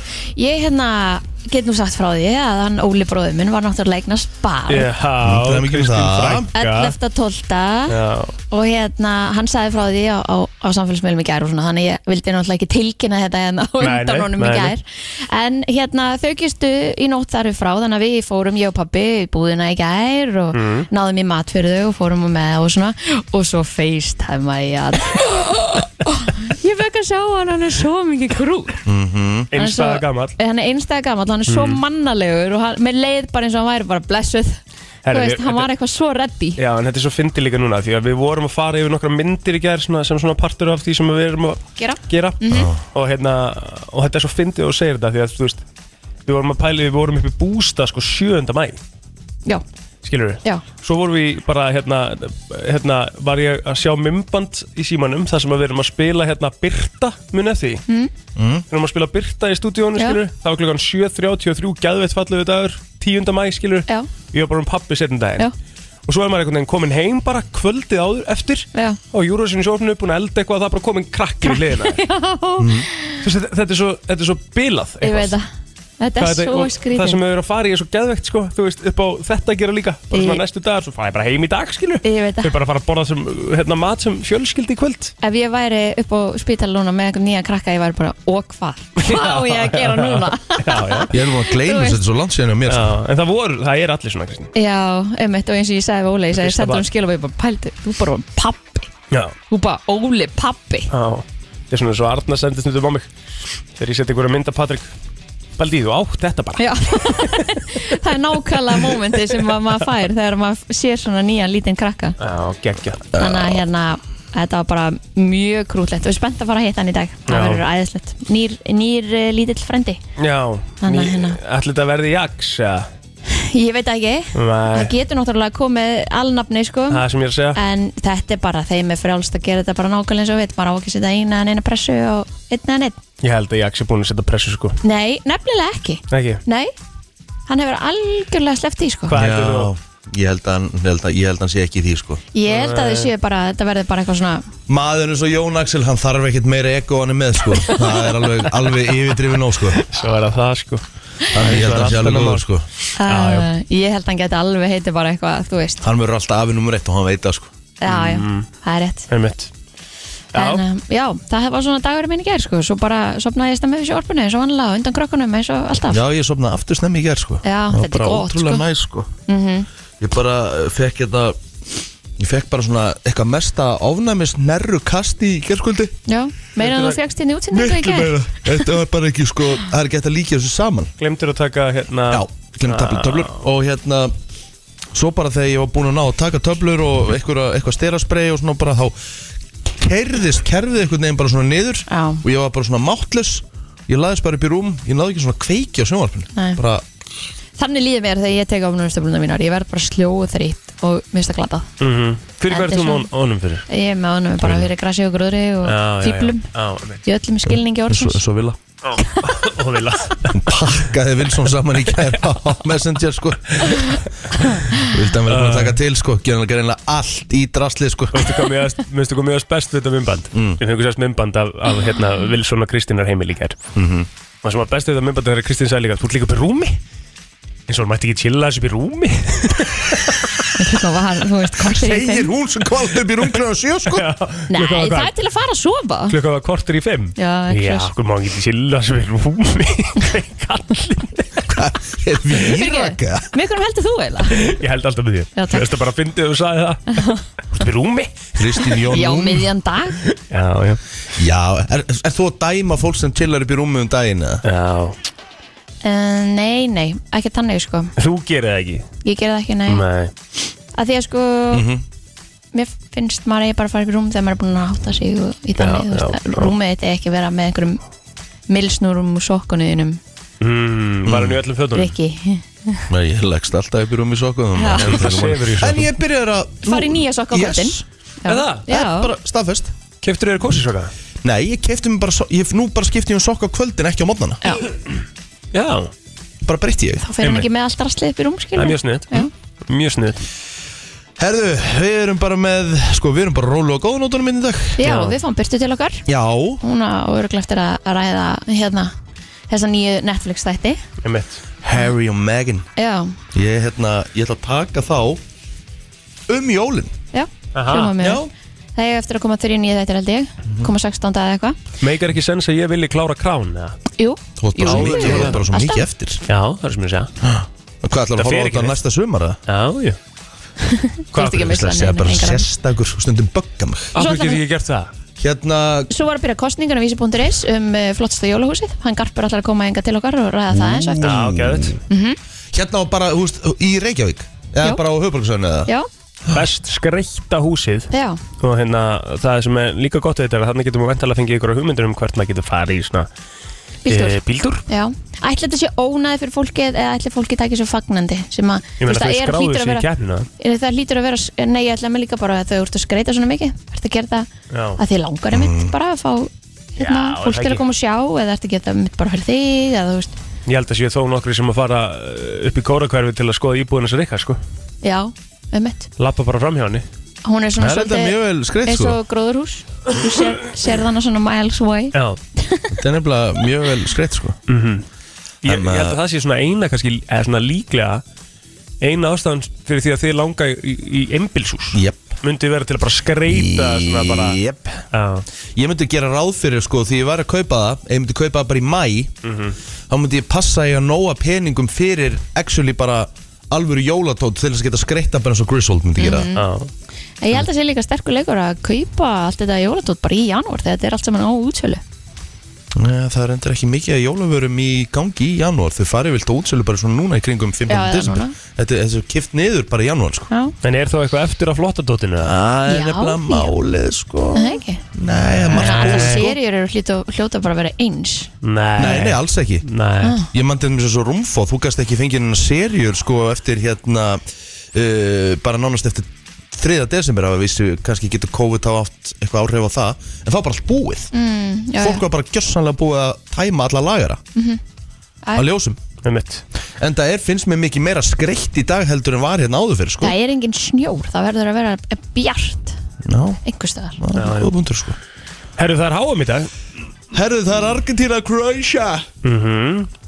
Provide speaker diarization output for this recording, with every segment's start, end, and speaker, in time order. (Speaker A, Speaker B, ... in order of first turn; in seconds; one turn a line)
Speaker A: 0.3-4.9
Speaker B: 4.7-7.0
Speaker C: 5.2-6.5
Speaker A: 6.5-7.9
Speaker B: 7.9-8.3
Speaker A: 8.5-28.8
Speaker B: 13.8-14.7
Speaker B: 20.5-20.9
Speaker C: 28.9-29.5
Speaker B: 29.5-30.3
Speaker A: 29.6-36.6
Speaker B: 31.5-31.8
Speaker B: 35.0-35.7
Speaker B: 36.6-45.6
Speaker A: 41.8-42.7
Speaker C: 42.5-42.8
Speaker B: 46.2-48.8
Speaker B: 50.0-57.8
Speaker C: 58.4-58.6
Speaker B: 58.7-65.5
Speaker B: 66.0-72.0
Speaker A: 71.4-73.2
Speaker C: 72.6-72.9
Speaker B: 73.2-75.3
Speaker A: 75.0-75.4
Speaker A: 76.0-77.2
Speaker B: 76.2-85.1
Speaker A: 80.1-80.4
Speaker A: 82.0-82.5
Speaker A: 85.2-92.0
Speaker B: 89.0-91.1
Speaker C: 91.1-92.9
Speaker B: 92.7-94.5
Speaker A: 94.5-98.9
Speaker B: 96.3-96.8
Speaker A: 99.5-100.9
Speaker B: 100.9-103.1
Speaker B: 103.8-104.9
Speaker B: 105.6-108.0
Speaker A: 106.6-112.2
Speaker B: 108.7-109.5
Speaker B: 112.2-113.1
Speaker C: 113.1-113.6
Speaker A: 113.2-120.0
Speaker B: 117.3-117.6
Speaker B: 120.2-122.9
Speaker A: 120.8-121.4
Speaker A: 123.3-127.0
Speaker B: 124.3-124.9
Speaker B: 126.9-127.6
Speaker A: 127.5-133.0
Speaker B: 133.2-134.8
Speaker A: 134.8-136.7
Speaker B: 136.1-136.4
Speaker A: 137.5-139.1
Speaker B: 139.1-139.7
Speaker C: 139.1-142.2
Speaker A: 142.3-144.4
Speaker B: 142.5-143.1
Speaker C: 144.7-149.8
Speaker B: 149.8-153.5
Speaker C: 151.3-152.7
Speaker A: 153.0-155.8
Speaker C: 155.8-157.5
Speaker A: 157.8-159.1
Speaker B: 157.8-158.5
Speaker B: 159.1-159.5
Speaker B: 160.3-160.6
Speaker A: 160.3-166.0
Speaker C: 165.9-169.1
Speaker A: 167.4-168.6
Speaker A: 169.3-169.7
Speaker C: 170.0-171.4
Speaker C: 172.2-176.0
Speaker A: 176.1-178.2
Speaker B: 176.6-177.0
Speaker C: 177.5-180.9
Speaker B: 181.0-183.4
Speaker C: 182.1-184.1
Speaker C: 184.9-188.9
Speaker C: 189.6-196.8
Speaker A: 191.9-192.2
Speaker A: 196.3-196.6
Speaker A: 197.6-201.7
Speaker B: 201.8-203.7
Speaker A: 202.5-203.1
Speaker A: 203.7-206.5
Speaker B: 205.7-207.0
Speaker A: 207.0-208.2
Speaker C: 207.5-208.6
Speaker B: 208.9-210.5
Speaker C: 210.3-214.0
Speaker C: 214.7-218.4
Speaker B: 215.3-215.8
Speaker B: 218.1-223.6
Speaker C: 220.3-220.6
Speaker C: 223.7-224.1
Speaker B: 224.4-226.8
Speaker B: 227.7-230.3
Speaker A: 230.5-232.3
Speaker C: 231.7-234.1
Speaker B: 233.9-235.1
Speaker A: 234.5-236.2
Speaker B: 236.1-241.6
Speaker A: 237.2-237.9
Speaker C: 241.5-243.3
Speaker A: 242.4-244.4
Speaker B: 244.3-248.8
Speaker A: 245.3-245.7
Speaker C: 248.3-249.5
Speaker A: 248.9-250.0
Speaker B: 250.0-250.8
Speaker C: 251.2-254.4
Speaker B: 254.4-254.9
Speaker A: 255.8-257.9
Speaker B: 258.0-258.9
Speaker A: 259.0-259.8
Speaker B: 259.7-260.1
Speaker A: 260.7-261.6
Speaker C: 261.5-261.8
Speaker A: 262.5-267.8
Speaker B: 265.6-266.5
Speaker A: 268.5-270.0
Speaker B: 270.4-271.9
Speaker C: 271.0-271.4
Speaker A: 271.7-272.9
Speaker C: 272.9-277.8
Speaker A: 274.6-275.1
Speaker B: 274.8-275.9
Speaker A: 276.6-279.1
Speaker B: 278.3-278.7
Speaker C: 278.7-279.7
Speaker B: 280.0-280.9
Speaker C: 281.2-284.4
Speaker B: 285.5-285.9
Speaker C: 286.4-287.0
Speaker A: 287.0-289.3
Speaker B: 287.2-287.5
Speaker B: 288.6-290.2
Speaker C: 291.2-294.8
Speaker A: 294.8-296.0
Speaker B: 294.8-295.2
Speaker C: 296.1-296.6
Speaker A: 296.6-298.9
Speaker A: 299.5-300.8
Speaker B: 301.0-301.4
Speaker C: 301.6-302.6
Speaker A: 302.8-303.1
Speaker C: 303.3-305.2
Speaker C: 306.3-306.9
Speaker A: 307.1-311.6
Speaker B: 307.5-307.9
Speaker C: 308.0-308.3
Speaker B: 311.8-313.8
Speaker A: 314.0-315.9
Speaker C: 314.4-316.2
Speaker B: 314.6-315.4
Speaker B: 316.3-317.1
Speaker C: 317.2-319.4
Speaker B: 318.1-318.8
Speaker B: 319.5-320.0
Speaker A: 320.6-322.4
Speaker B: 321.1-321.7
Speaker C: 321.3-323.9
Speaker B: 323.9-324.9
Speaker A: 324.0-324.4
Speaker C: 325.2-325.9
Speaker A: 325.9-331.1
Speaker C: 330.5-331.8
Speaker B: 331.0-331.8
Speaker A: 331.9-332.2
Speaker C: 332.5-335.7
Speaker B: 336.3-343.1
Speaker A: 337.9-338.2
Speaker A: 343.9-344.2
Speaker B: 343.9-344.6
Speaker A: 344.7-349.8
Speaker B: 348.8-350.3
Speaker A: 350.4-360.1
Speaker B: 354.5-354.8
Speaker C: 355.3-355.7
Speaker B: 356.8-357.6
Speaker B: 360.5-364.4
Speaker A: 364.8-365.9
Speaker B: 366.0-366.8
Speaker A: 367.2-372.7
Speaker C: 367.6-369.0
Speaker B: 371.9-372.2
Speaker C: 372.8-374.4
Speaker B: 374.5-374.8
Speaker B: 375.4-378.0
Speaker C: 375.4-376.0
Speaker B: 378.8-385.2
Speaker C: 381.7-382.2
Speaker C: 383.3-384.8
Speaker C: 385.5-389.1
Speaker B: 389.2-389.6
Speaker C: 389.9-396.3
Speaker A: 396.0-396.5
Speaker B: 396.3-396.7
Speaker A: 397.2-401.8
Speaker C: 402.7-410.3
Speaker A: 407.7-408.3
Speaker A: 410.3-410.5
Speaker B: 410.6-412.4
Speaker C: 412.2-416.4
Speaker A: 412.7-413.5
Speaker A: 414.3-414.8
Speaker B: 415.4-416.3
Speaker A: 415.5-418.3
Speaker B: 418.4-420.2
Speaker C: 418.8-419.6
Speaker C: 420.3-431.1
Speaker A: 431.1-432.0
Speaker C: 431.8-434.2
Speaker A: 434.3-434.6
Speaker C: 435.3-435.8
Speaker B: 436.0-436.4
Speaker C: 436.8-440.1
Speaker A: 440.0-442.8
Speaker C: 443.0-443.4
Speaker A: 443.4-444.0
Speaker C: 444.0-445.0
Speaker B: 444.1-444.5
Speaker B: 445.6-446.5
Speaker C: 447.1-449.1
Speaker B: 449.2-449.9